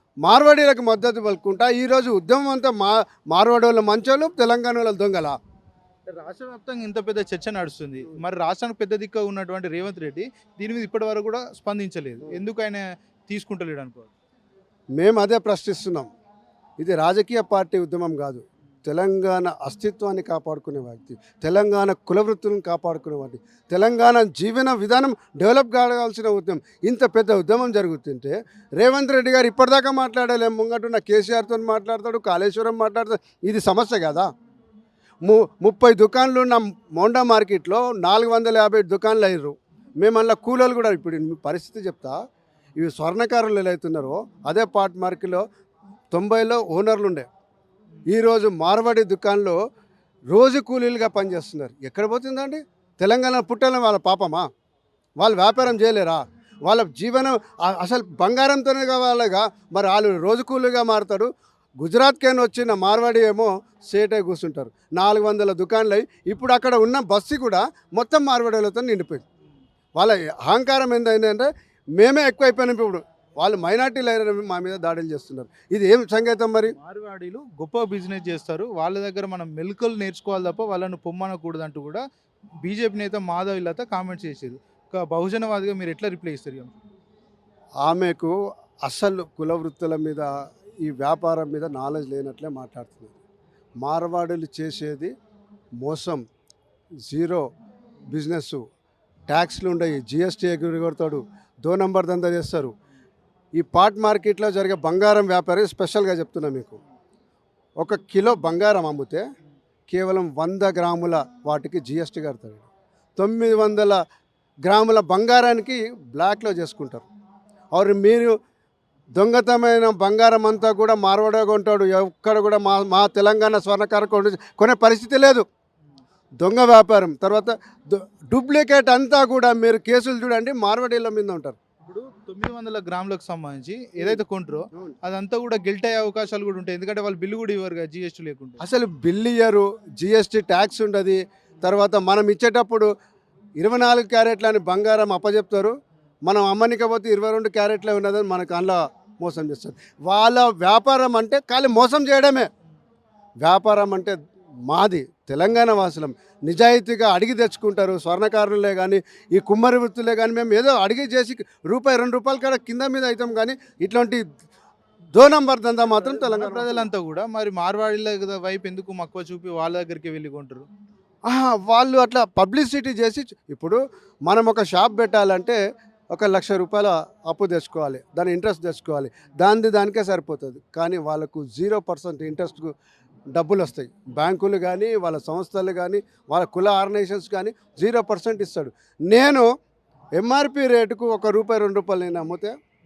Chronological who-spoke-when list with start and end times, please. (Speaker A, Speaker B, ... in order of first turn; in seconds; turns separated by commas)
Speaker A: 0.2-5.4, Speaker B: 6.1-14.1, Speaker A: 15.0-16.1, Speaker A: 16.8-34.3, Speaker A: 35.2-42.2, Speaker A: 42.8-45.4, Speaker A: 46.1-47.3, Speaker A: 48.1-49.6, Speaker A: 50.3-54.5, Speaker A: 55.2-61.3, Speaker A: 61.8-69.2, Speaker A: 70.0-76.7, Speaker B: 76.7-82.0, Speaker B: 82.6-86.8, Speaker A: 87.8-88.3, Speaker A: 88.8-90.3, Speaker A: 90.8-93.2, Speaker A: 93.8-95.1, Speaker A: 95.8-96.2, Speaker A: 97.0-97.5, Speaker A: 98.1-98.6, Speaker A: 99.3-102.7, Speaker A: 103.6-106.8, Speaker A: 107.8-109.2, Speaker A: 109.9-114.0, Speaker A: 114.6-117.0, Speaker A: 117.7-118.3, Speaker A: 119.2-125.4, Speaker A: 126.4-131.6, Speaker B: 131.8-138.6, Speaker A: 138.6-142.9, Speaker A: 143.6-152.5, Speaker A: 153.4-154.2, Speaker A: 154.7-164.2, Speaker A: 165.1-166.8, Speaker B: 165.9-170.7, Speaker A: 171.3-175.6, Speaker A: 176.1-182.7, Speaker A: 183.3-189.4, Speaker A: 190.2-192.5